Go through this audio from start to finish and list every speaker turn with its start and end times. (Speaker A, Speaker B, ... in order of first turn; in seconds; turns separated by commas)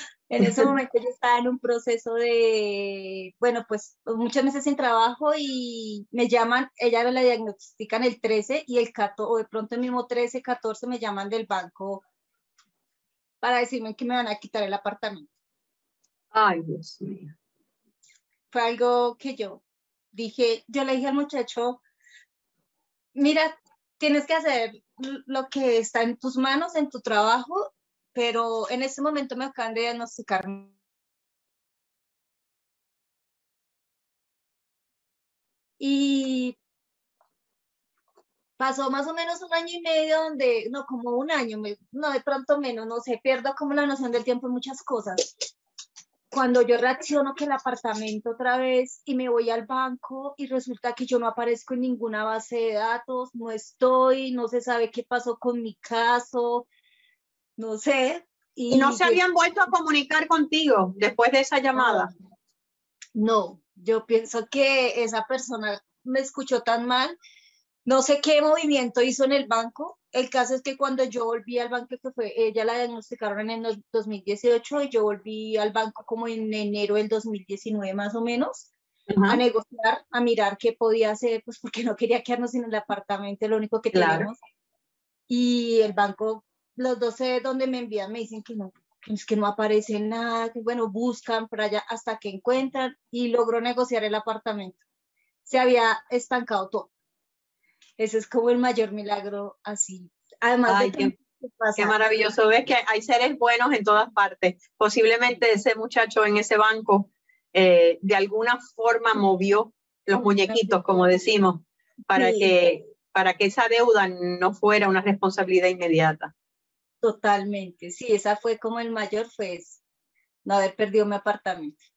Speaker A: 0.3-12.0, Speaker A: 13.4-15.3, Speaker B: 16.3-17.3, Speaker A: 18.5-19.6, Speaker A: 20.1-21.8, Speaker A: 23.1-30.7, Speaker A: 35.8-36.6, Speaker A: 38.6-45.4, Speaker A: 46.3-56.7, Speaker A: 57.6-59.2, Speaker B: 58.7-62.1, Speaker A: 61.7-62.1, Speaker A: 63.1-67.2, Speaker A: 67.8-78.7, Speaker B: 79.1-79.4, Speaker A: 79.3-84.4, Speaker B: 83.9-84.3, Speaker A: 85.3-94.8, Speaker A: 95.5-96.9, Speaker A: 98.0-102.0, Speaker B: 100.7-101.1, Speaker B: 101.8-116.3, Speaker A: 112.1-112.5, Speaker A: 117.0-119.8, Speaker A: 120.4-121.8